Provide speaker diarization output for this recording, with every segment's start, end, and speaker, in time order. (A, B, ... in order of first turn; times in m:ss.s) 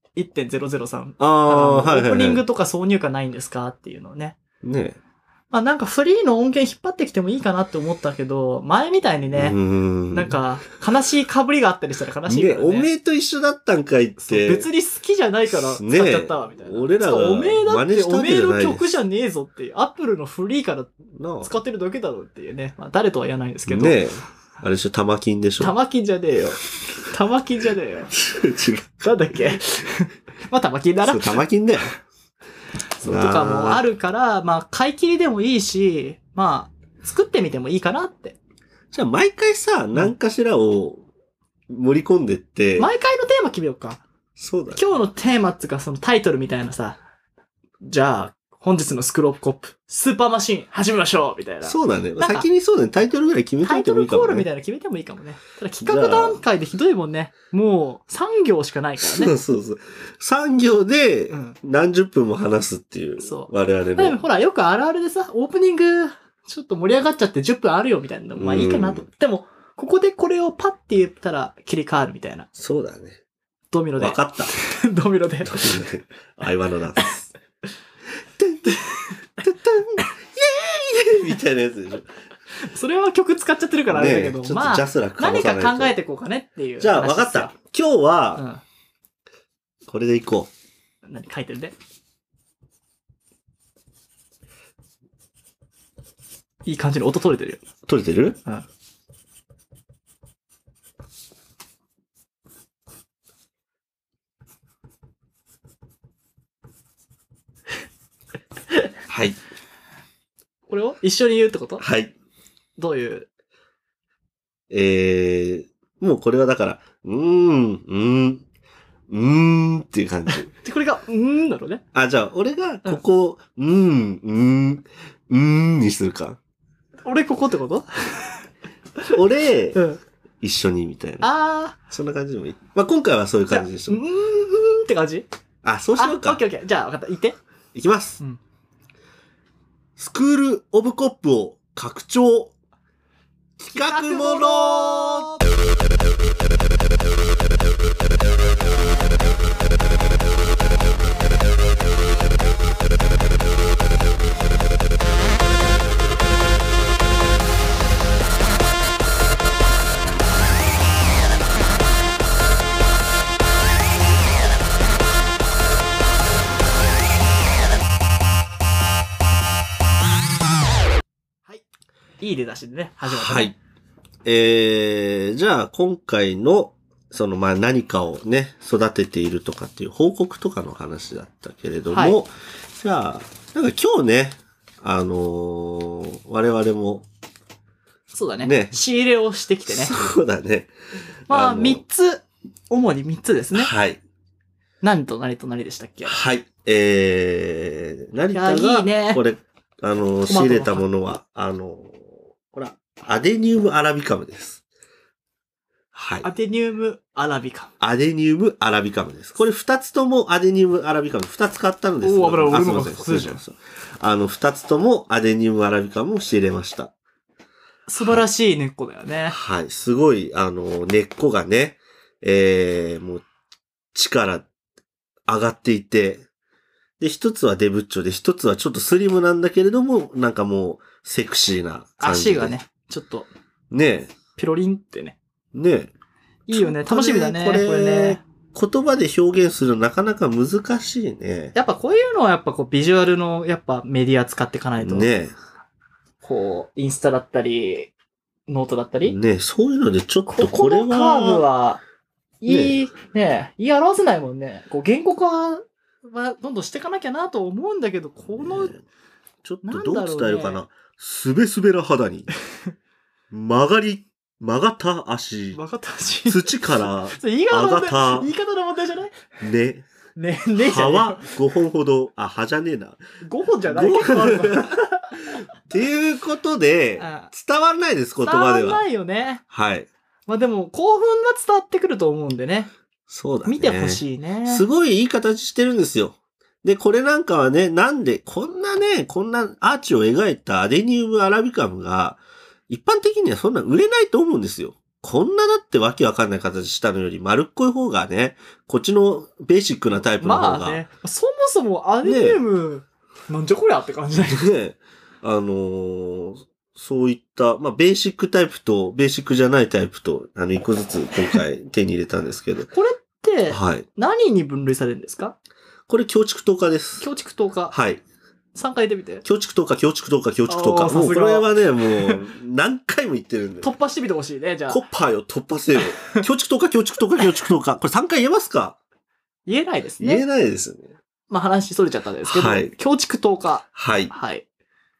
0:00.2-0:04.4 A
0:01.2-0:02.4 B
0:04.6-0:05.0 B
0:05.5-0:09.6 A
0:09.3-0:10.4 B
0:10.1-0:12.9 A
0:12.3-0:14.7 B
0:14.2-0:24.0 A
0:15.5-0:19.0 B
0:21.1-0:21.5 B
0:23.7-0:25.7 B
0:25.6-0:28.1 A
0:28.1-0:29.1 B
0:29.0-0:31.4 A
0:31.0-0:31.9 B
0:33.0-0:38.4 A
0:33.0-0:33.8 B
0:38.9-0:41.0 B
0:41.7-0:42.9 B
0:42.8-0:44.0 A
0:44.4-0:44.8 B
0:44.7-0:47.0 A
0:47.8-0:52.5 A
0:51.6-0:54.5 B
0:53.6-0:59.3 A
0:55.8-0:56.4 B
0:59.0-1:04.2 B
1:01.3-1:01.6 A
1:03.2-1:12.5 A
1:08.4-1:09.0 B
1:12.6-1:13.2 B
1:13.7-1:15.9 A
1:14.0-1:14.5 B
1:15.4-1:17.3 B
1:18.4-1:18.8 B
1:18.6-1:19.2 A
1:19.4-1:22.1 B
1:22.6-1:27.5 A
1:23.9-1:26.0 B
1:26.8-1:28.4 B
1:28.4-1:28.6 A
1:29.9-1:30.5 B
1:31.0-1:31.7 A
1:36.6-1:37.6 A
1:37.9-1:38.4 B
1:49.1-1:49.4 B
1:50.7-1:51.8 A
1:51.8-1:52.1 B
1:52.8-1:53.3 A
1:54.7-1:58.4 B
1:59.1-2:00.5 B
2:00.3-2:01.8 A
2:01.9-2:06.4 B
2:07.0-2:08.4 A
2:09.1-2:09.8 B
2:10.4-2:11.3 B
2:11.2-2:11.8 A
2:11.9-2:14.0 B
2:13.5-2:15.2 A
2:15.6-2:16.4 B
2:16.0-2:17.4 A
2:17.7-2:18.2 B
2:20.0-2:22.5 B
2:23.6-2:25.3 B
2:23.7-2:25.4 A
2:52.2-2:53.6 A
2:53.0-2:53.5 B
2:54.2-3:07.0 B
3:01.9-3:02.2 A
3:08.1-3:10.0 A
3:08.4-3:08.8 B
3:09.7-3:10.7 B
3:11.3-3:11.8 B
3:11.3-3:13.7 A
3:13.5-3:14.0 B
3:14.8-3:16.2 A
3:16.0-3:24.6 B
3:18.3-3:19.2 A
3:20.3-3:20.8 A
3:25.9-3:26.3 B
3:26.2-3:27.7 A
3:27.8-3:36.9 B
3:32.0-3:33.4 A
3:37.9-3:39.4 A
3:39.3-3:43.2 B
3:43.9-3:44.5 B
3:45.3-3:46.2 B
3:47.0-3:52.6 B
3:52.0-3:53.3 A
3:53.7-3:54.2 B
3:54.4-3:55.2 A
3:55.5-3:55.9 B
3:56.5-3:58.2 A
3:56.5-4:01.5 B
4:01.5-4:05.1 A
4:04.8-4:05.3 B
4:06.2-4:07.9 A
4:08.5-4:09.2 A
4:09.0-4:11.4 B
4:10.3-4:11.8 A
4:12.4-4:18.7 A
4:12.4-4:12.8 B
4:18.3-4:18.8 B
4:19.4-4:22.3 B
4:19.6-4:20.6 A
4:23.3-4:25.6 B
4:25.5-4:29.2 A
4:26.3-4:28.3 B
4:29.4-4:29.8 B
4:30.2-4:31.3 A
4:30.6-4:33.0 B
4:33.2-4:35.2 A
4:33.6-4:38.8 B
4:37.0-4:37.3 A
4:38.2-4:39.4 A
4:39.5-4:39.9 B
4:40.3-4:42.7 A
4:43.1-5:00.8 B
4:43.4-4:44.6 A
5:00.2-5:04.4 A
5:02.0-5:02.4 B
5:04.2-5:12.7 B
5:12.7-5:15.4 A
5:13.5-5:13.8 B
5:15.9-5:17.1 B
5:17.0-5:17.7 A
5:17.7-5:18.0 B
5:18.5-5:19.2 A
5:19.2-5:23.7 B
5:20.5-5:21.5 A
5:23.6-5:24.8 A
5:24.7-5:28.8 B
5:29.4-5:30.2 A
5:30.0-5:31.0 B
5:31.3-5:34.4 A
5:32.2-5:32.7 B
5:33.7-5:34.1 B